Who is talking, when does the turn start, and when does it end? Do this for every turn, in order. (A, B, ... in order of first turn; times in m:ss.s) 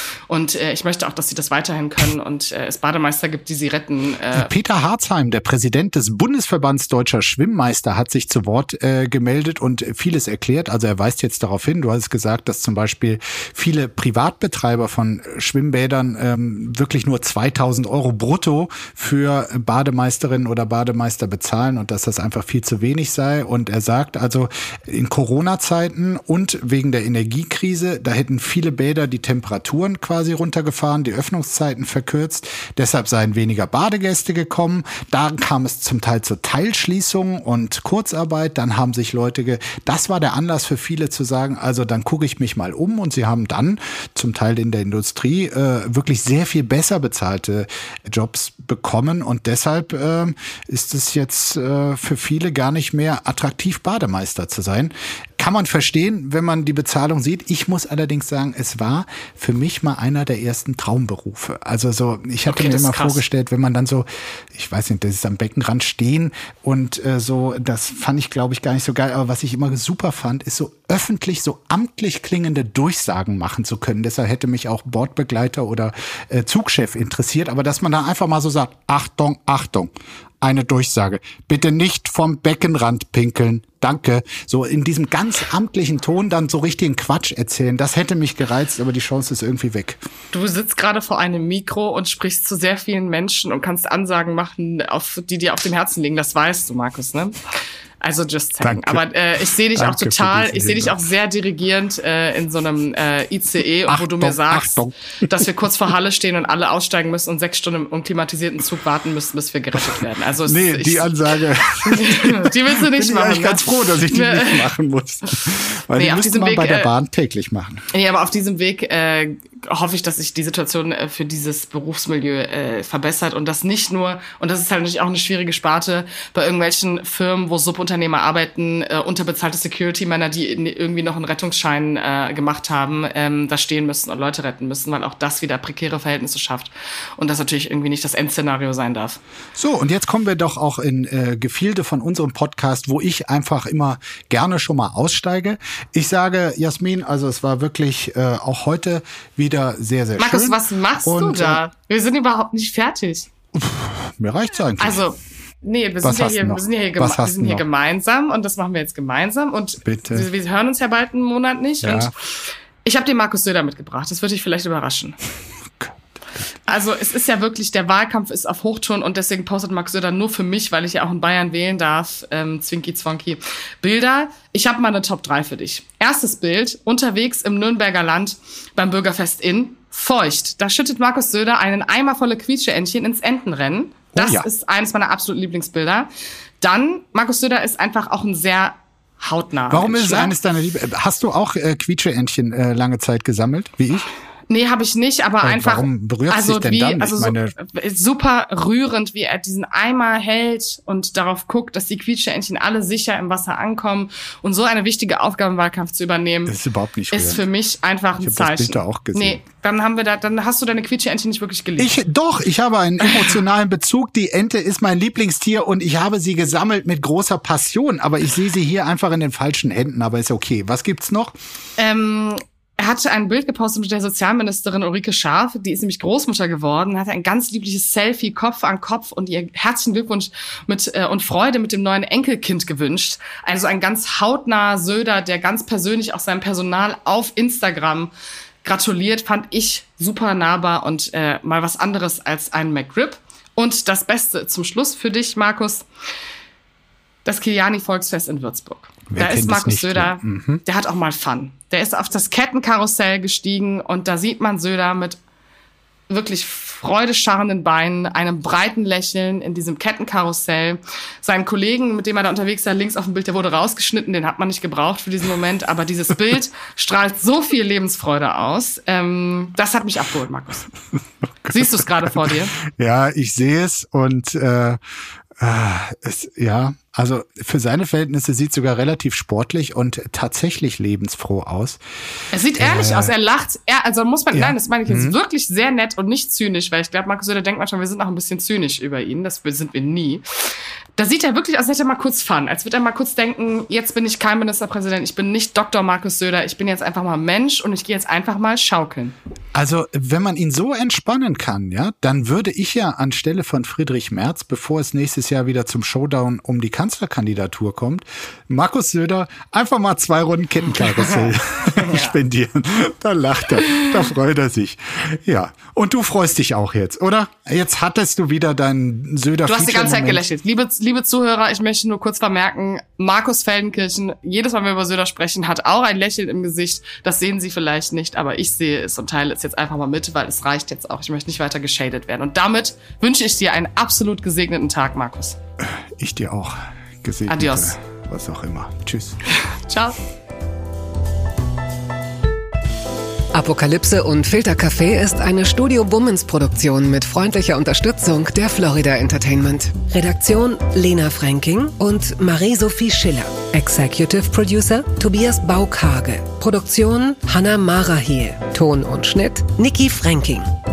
0:00.3-0:04.5 A
0:04.3-1:19.9 B
1:02.5-1:03.2 A
1:20.4-1:30.0 B
1:30.3-1:37.4 A
1:38.0-1:51.1 A
1:38.6-1:39.0 B
1:39.7-1:41.0 B
1:43.9-1:45.3 B
1:50.5-1:57.8 B
1:51.7-1:54.7 A
1:56.0-1:56.9 A
1:57.9-2:19.2 A
2:19.6-2:31.6 B
2:30.2-2:33.3 A
2:33.5-2:35.0 B
2:34.8-2:42.1 A
2:36.0-2:37.6 B
2:39.8-2:40.3 B
2:41.8-2:42.1 B
2:42.8-2:45.2 A
2:45.8-2:46.4 B
2:46.7-3:06.1 A
3:04.1-3:04.5 B
3:06.6-3:10.4 A
3:09.7-3:14.1 B
3:14.5-3:26.6 A
3:15.4-3:17.6 B
3:26.5-3:27.4 B
3:27.1-3:31.9 A
3:28.2-3:29.4 B
3:31.8-3:41.4 B
3:41.8-3:58.1 A
3:58.6-4:05.9 A
4:07.2-4:15.2 A
4:09.1-4:10.6 B
4:16.1-4:30.7 A
4:31.4-4:34.8 B
4:31.5-4:32.5 A
4:35.4-4:41.8 B
4:42.3-4:50.2 A
4:42.6-4:43.1 B
4:44.3-4:45.2 B
4:51.0-4:59.2 A
4:59.6-5:20.2 B
5:10.9-5:12.1 A
5:19.5-5:35.4 A
5:35.6-5:39.2 B
5:37.3-5:37.7 A
5:39.7-5:40.0 A
5:43.3-6:00.5 C